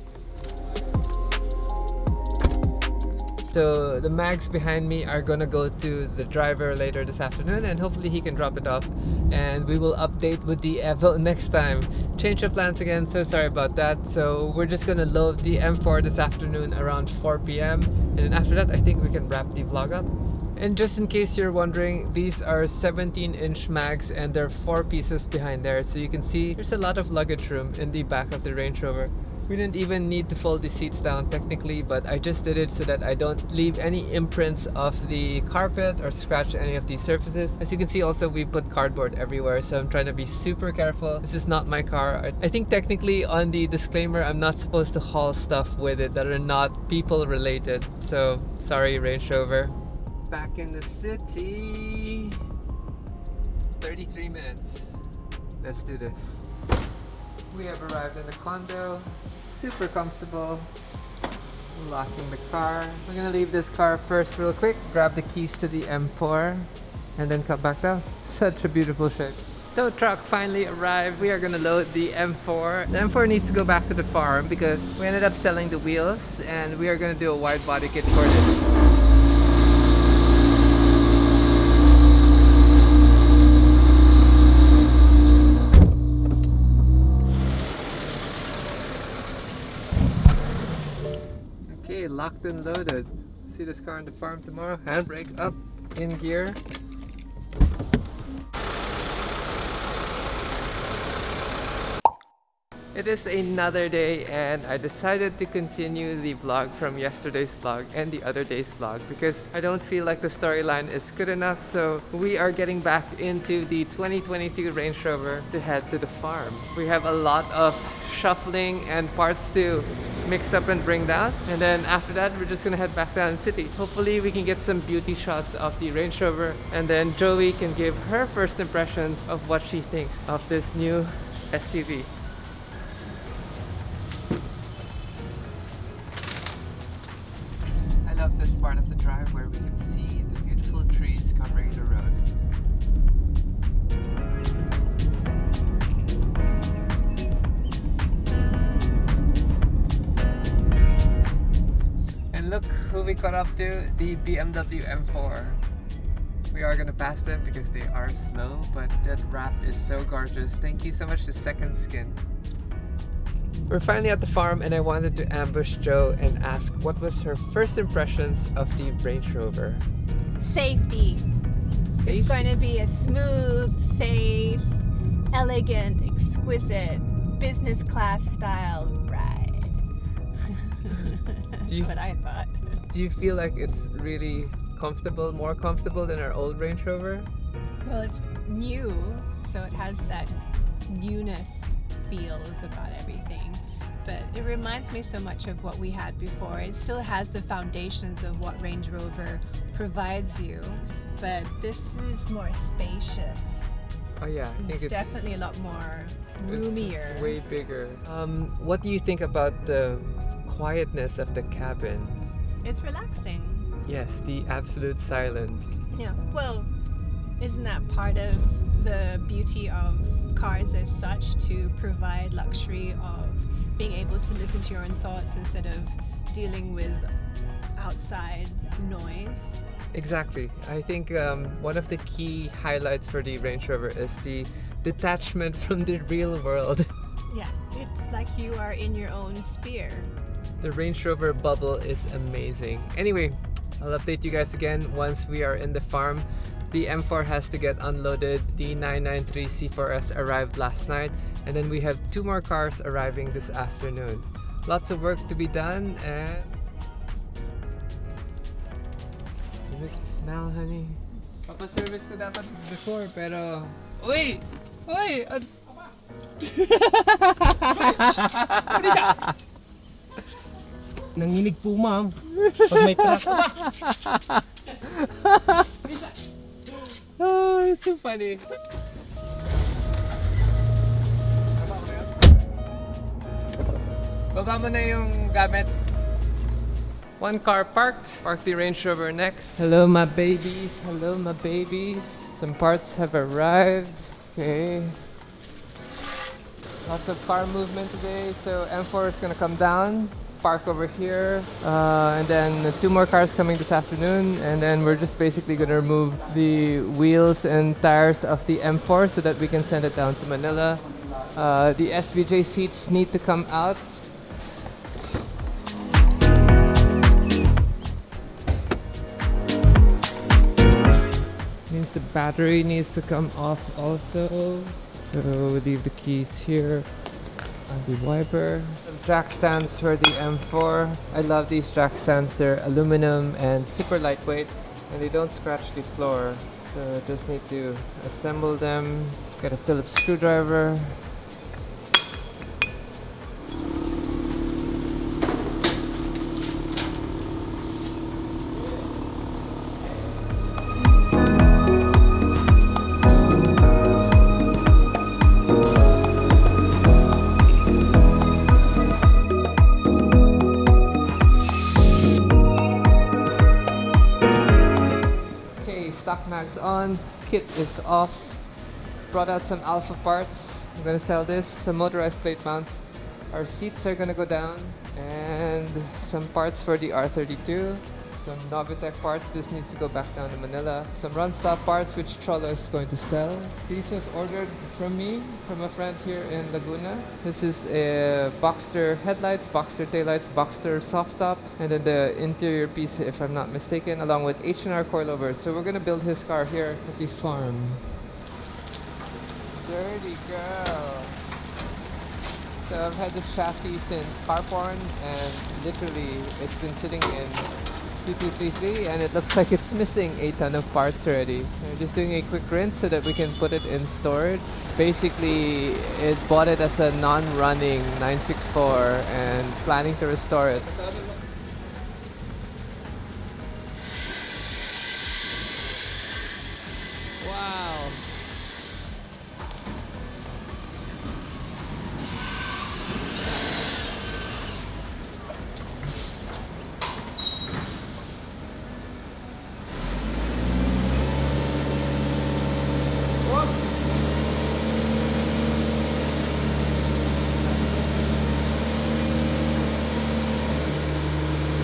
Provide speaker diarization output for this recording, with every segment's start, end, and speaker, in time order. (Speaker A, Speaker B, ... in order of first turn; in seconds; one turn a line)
Speaker A: 3.5-49.8
Speaker A: 50.3-52.4
Speaker A: 53.8-55.0
Speaker A: 55.6-56.4
Speaker A: 57.5-60.7
Speaker A: 61.7-78.6
Speaker A: 91.7-96.6
Speaker A: 102.9-132.1
Speaker A: 138.0-142.2
Speaker A: 152.3-155.6
Speaker A: 156.5-162.2
Speaker A: 163.7-169.9
Speaker B: 170.4-171.3
Speaker B: 172.0-174.8
Speaker A: 172.1-172.6
Speaker B: 175.3-179.8
Speaker B: 180.5-182.5
Speaker A: 180.9-181.2
Speaker A: 181.7-181.9
Speaker A: 182.9-187.3
Speaker B: 187.8-190.4
Speaker B: 190.9-203.8
Speaker A: 204.2-205.1
Speaker B: 204.6-207.4
Speaker A: 206.5-212.4
Speaker B: 212.6-213.7
Speaker A: 213.8-215.7
Speaker B: 215.9-216.7
Speaker B: 217.4-227.1
Speaker B: 227.8-229.6
Speaker A: 229.9-236.9
Speaker B: 237.3-240.1
Speaker A: 240.6-256.6
Speaker A: 259.7-265.5
Speaker A: 266.4-269.3
Speaker C: 267.8-269.2
Speaker C: 271.2-273.6
Speaker A: 272.2-275.7
Speaker A: 277.2-278.5
Speaker A: 284.3-285.7
Speaker A: 287.2-295.0
Speaker A: 296.8-310.8
Speaker A: 311.3-314.0
Speaker A: 321.7-326.9
Speaker A: 327.7-341.0
Speaker A: 365.6-368.4
Speaker A: 369.1-397.8
Speaker A: 399.6-401.2
Speaker A: 402.6-407.5
Speaker A: 408.0-420.9
Speaker A: 427.2-428.0